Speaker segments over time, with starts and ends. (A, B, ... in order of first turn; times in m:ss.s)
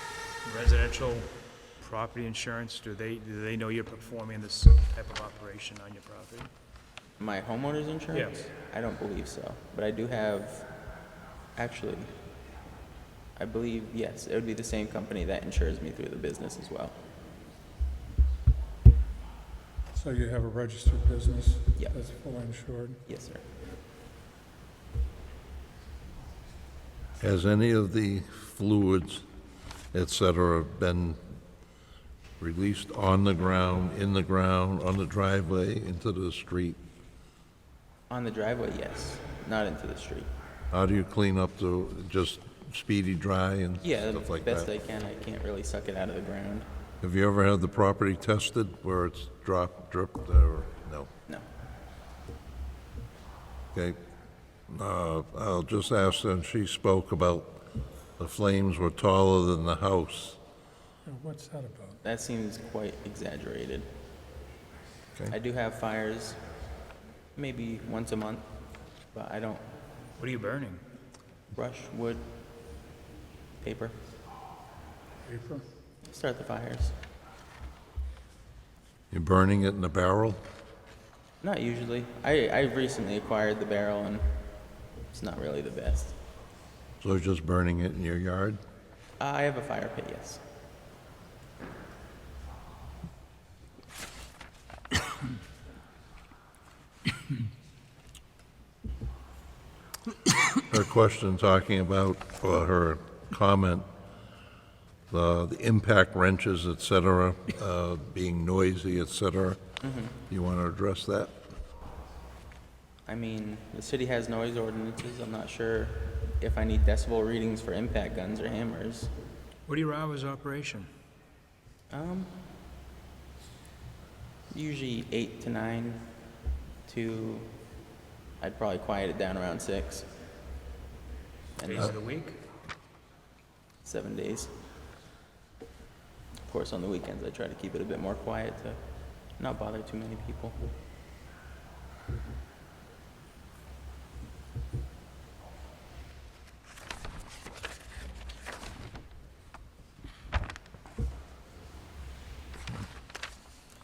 0:00.4-0:06.5 A
0:07.2-0:10.7 B
0:08.1-0:08.4 A
0:11.6-0:12.1 B
0:13.4-0:16.9 B
0:19.9-0:23.0 C
0:23.1-0:23.4 B
0:27.2-0:29.2 D
0:29.9-0:31.2 D
0:32.4-0:36.8 D
0:38.1-0:40.3 B
0:40.7-0:44.7 D
0:43.8-0:46.6 B
0:47.0-0:51.1 D
0:54.7-0:57.6 D
0:58.2-1:00.4 D
1:01.0-1:02.0 C
1:02.0-1:03.8 B
1:05.3-1:06.4 B
1:07.4-1:08.4 B
1:09.1-1:09.6 B
1:10.2-1:10.8 A
1:11.5-1:12.2 B
1:13.6-1:13.9 B
1:15.2-1:15.6 C
1:16.0-1:16.9 B
1:19.1-1:20.4 D
1:21.4-1:24.4 B
1:25.1-1:26.2 B
1:27.0-1:28.6 D
1:29.2-1:30.4 B
1:40.7-1:43.8 D
1:45.1-1:49.6 D
1:49.8-1:50.2 B
1:50.3-1:51.3 D
1:53.1-1:59.1 B
1:59.6-2:00.9 A
2:01.9-2:02.3 B
2:04.5-2:06.0 B
2:06.9-2:07.5 B
2:08.4-2:10.1 B
2:11.6-2:11.9 B
2:11.6-2:12.4 A
2:13.8-2:14.5 B
2:16.4-2:18.8 B
2:19.4-2:20.6 B